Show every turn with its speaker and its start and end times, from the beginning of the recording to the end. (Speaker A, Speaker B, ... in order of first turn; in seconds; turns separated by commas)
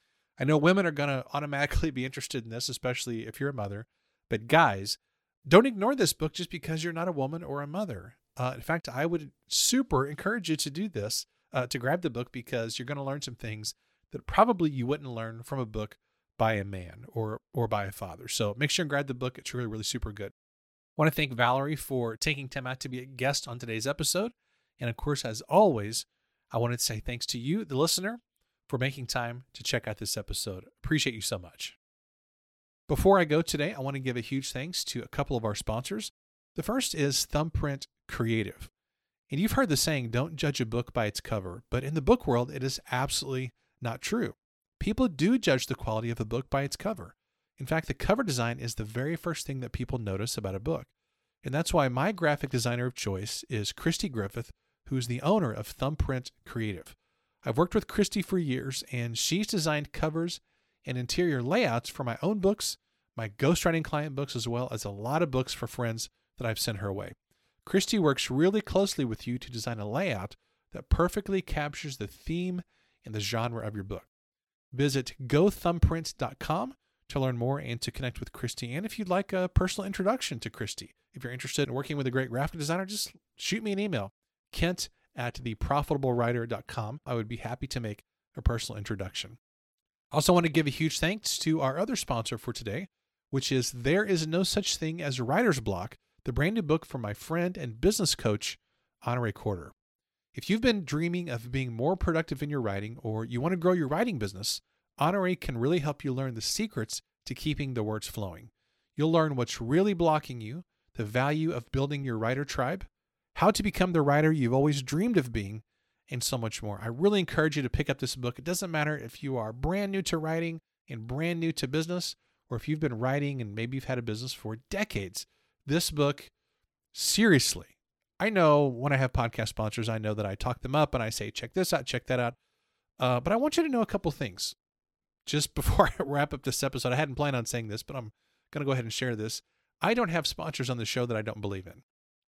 Speaker A: 0.4-20.3, Speaker A: 21.0-31.8, Speaker A: 32.9-38.7, Speaker A: 39.3-50.9, Speaker A: 51.4-74.1, Speaker A: 74.7-89.4, Speaker A: 90.1-99.7, Speaker A: 100.3-126.3, Speaker A: 126.9-132.4, Speaker A: 133.0-134.5, Speaker A: 135.2-141.8